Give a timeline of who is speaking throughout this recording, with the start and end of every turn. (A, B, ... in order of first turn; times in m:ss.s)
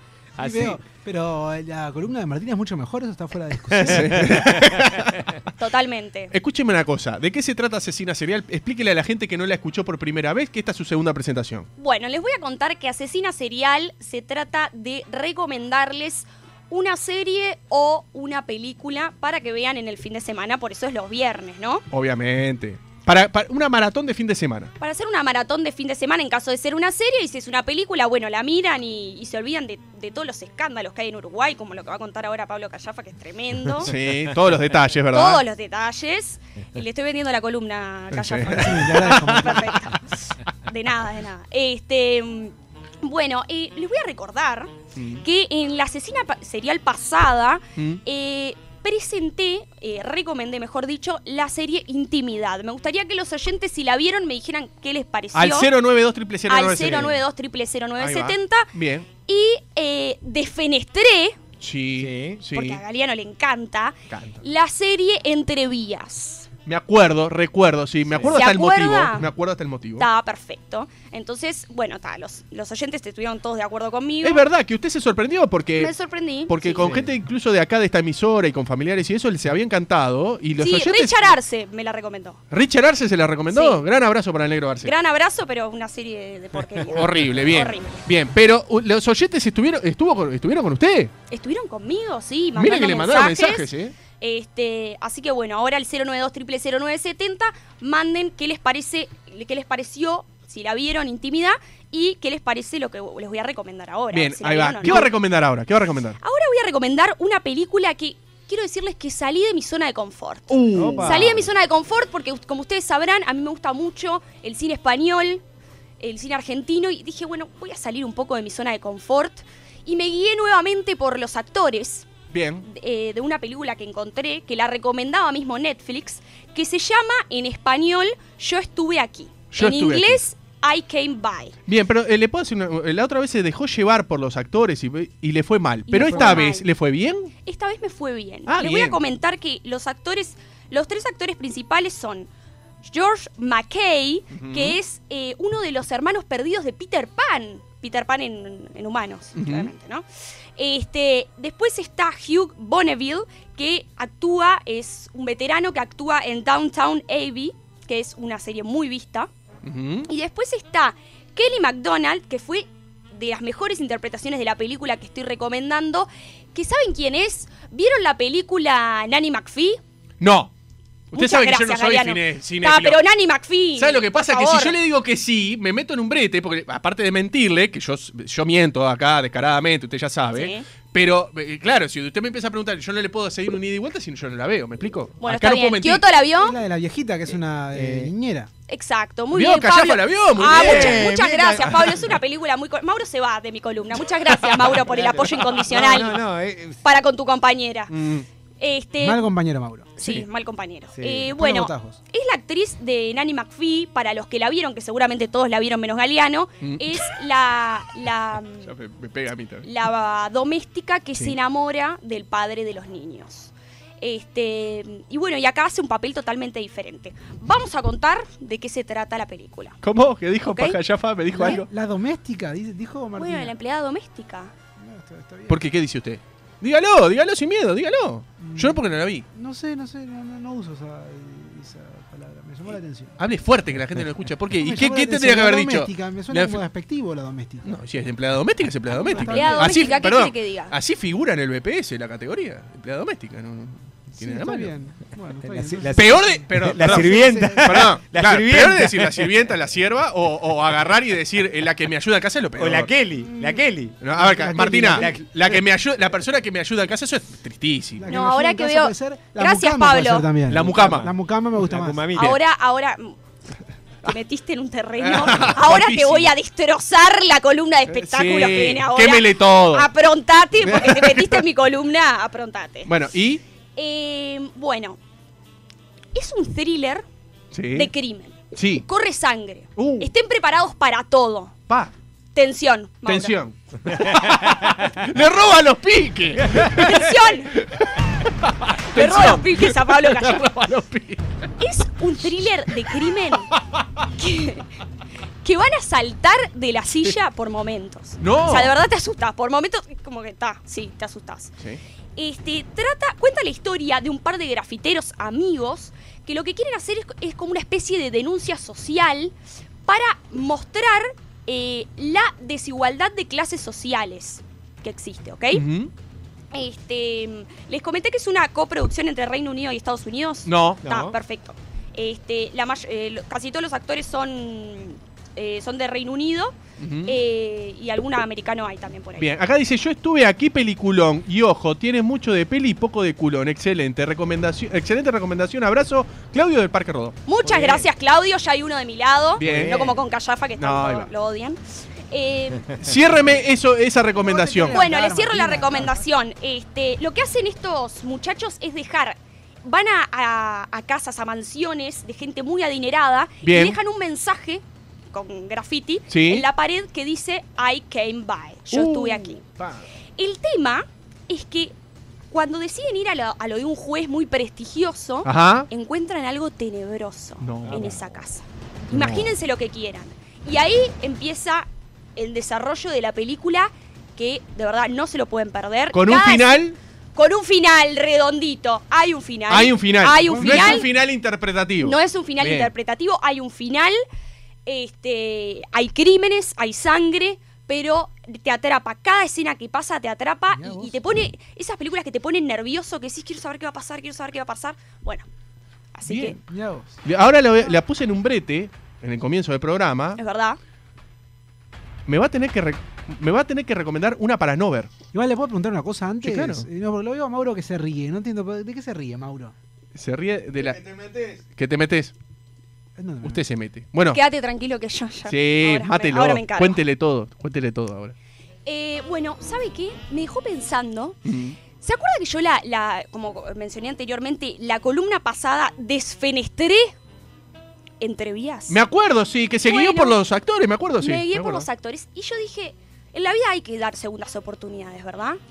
0:00.4-0:00.8 A
0:00.4-0:04.3 B
0:03.8-0:05.4 C
0:03.9-0:04.7 A
0:05.6-0:06.3 D
0:06.3-0:11.7 C
0:11.8-0:21.8 D
0:21.9-0:24.7 C
0:24.8-0:33.9 D
0:33.8-0:35.4 C
0:35.1-0:55.7 D
0:38.1-0:39.4 C
0:38.5-0:39.8 B
0:44.9-0:45.2 C
0:47.8-0:48.0 C
0:55.3-0:57.2 C
0:56.4-0:58.7 D
0:58.0-0:59.1 C
0:59.3-1:01.4 D
1:01.6-1:02.8 C
1:02.0-1:02.4 A
1:02.5-1:06.5 D
1:04.1-1:04.4 C
1:06.7-1:10.1 C
1:08.3-1:09.3 D
1:10.0-1:14.5 D
1:14.2-1:15.9 C
1:15.8-1:16.9 D
1:16.5-1:21.4 C
1:16.8-1:17.1 A
1:20.6-1:22.4 D
1:22.5-1:24.9 C
1:23.5-1:23.8 D
1:24.8-1:28.1 D
1:26.8-1:31.1 C
1:31.3-1:45.1 D
1:32.5-1:33.9 C
1:44.1-1:46.2 C
1:46.2-1:55.4 D
1:50.5-1:51.3 C
1:50.7-1:51.5 A
1:56.0-2:02.1 D
2:02.3-2:02.7 C
2:02.7-2:11.6 D
2:09.5-2:10.2 C
2:11.7-2:17.3 C
2:15.9-2:16.7 D
2:16.0-2:16.4 B
2:17.4-2:22.3 D
2:18.5-2:19.0 C
2:22.8-2:30.1 D
2:24.3-2:24.8 C
2:29.4-2:29.7 C
2:30.6-2:39.3 D
2:39.6-2:40.1 C
2:40.1-2:49.8 D
2:50.2-2:50.5 C
2:51.1-2:53.0 C
2:51.1-2:54.8 D
2:53.8-3:06.0 C
3:00.3-3:00.6 D
3:05.2-3:06.6 D
3:06.4-3:08.5 B
3:07.7-3:08.1 A
3:08.7-3:16.3 D
3:09.3-3:11.1 C
3:10.4-3:11.7 A
3:11.6-3:12.1 C
3:14.8-3:16.8 A
3:16.8-3:17.9 D
3:17.9-3:18.2 C
3:18.6-3:19.2 D
3:19.0-3:19.9 B
3:20.0-3:28.8 D
3:20.0-3:20.3 C
3:20.9-3:21.3 A
3:21.3-3:22.0 B
3:26.6-3:26.9 C
3:28.6-3:29.7 C
3:29.6-3:39.8 D
3:39.8-3:41.7 C
3:40.4-3:40.8 D
3:41.3-3:43.5 B
3:43.2-3:44.5 D
3:44.8-3:45.6 B
3:45.5-3:49.3 C
3:48.4-3:48.8 B
3:49.3-3:53.2 B
3:53.2-3:56.6 C
3:54.6-3:57.7 B
3:57.6-4:04.7 C
3:59.0-4:00.0 B
3:59.1-4:00.8 D
4:04.2-4:07.7 B
4:05.4-4:09.4 A
4:05.9-4:12.9 C
4:12.6-4:14.1 A
4:13.3-4:15.2 B
4:14.0-4:18.1 C
4:14.9-4:15.6 A
4:18.0-4:22.3 B
4:18.1-4:20.3 D
4:20.5-4:21.1 C
4:20.5-4:22.4 A
4:22.1-4:23.2 D
4:24.0-4:32.9 D
4:25.0-4:26.3 C
4:27.9-4:29.9 C
4:30.6-4:31.4 C
4:32.9-4:33.4 C
4:33.8-4:35.0 D
4:36.1-4:37.0 D
4:37.5-4:37.9 C
4:37.7-4:41.6 D
4:38.5-4:38.9 C
4:39.8-4:40.1 C
4:42.4-4:43.4 D
4:43.1-4:51.2 C
4:46.6-4:47.5 D
4:48.9-4:50.5 D
4:51.6-4:53.5 D
4:54.2-4:54.7 D
4:55.4-5:01.5 D
4:58.2-4:58.8 C
5:02.2-5:09.3 D
5:09.9-5:15.6 D
5:15.5-5:15.9 C
5:16.5-5:26.6 D
5:20.4-5:20.8 C
5:20.8-5:21.2 A
5:26.8-5:27.2 C
5:27.1-5:29.3 D
5:29.2-5:37.2 C
5:37.3-5:41.6 D
5:37.4-5:37.9 A
5:39.4-5:39.9 C
5:39.4-5:40.0 A
5:40.6-5:41.1 C
5:42.1-5:42.7 D
5:42.7-5:44.9 C
5:44.2-5:46.1 B
5:44.7-5:59.4 D
5:53.4-5:53.8 C
5:56.1-5:56.5 C
5:58.7-5:59.8 C
6:00.2-6:01.7 D
6:02.3-6:16.6 D
6:05.2-6:05.7 C
6:07.4-6:08.0 C
6:07.6-6:08.0 A
6:08.9-6:09.3 C
6:15.9-6:16.8 C
6:17.2-6:20.9 D
6:19.5-6:22.7 C
6:20.2-6:20.9 B
6:21.8-6:24.0 D
6:24.7-6:35.2 D
6:30.5-6:31.1 B
6:36.0-6:36.4 D
6:36.1-6:36.4 C
6:36.5-6:37.0 B
6:37.0-6:40.2 C
6:40.2-6:40.6 D
6:42.1-6:44.9 C
6:45.1-6:49.5 B
6:46.2-6:46.7 C
6:50.0-6:52.1 C
6:53.0-6:53.4 B
6:53.2-6:54.2 C
6:54.1-6:56.8 D
6:55.2-6:58.1 C
6:58.7-7:01.2 D
7:01.2-7:01.6 C
7:01.8-7:06.9 D
7:08.0-7:08.8 D
7:08.7-7:11.7 C
7:09.6-7:10.2 D
7:11.0-7:15.4 D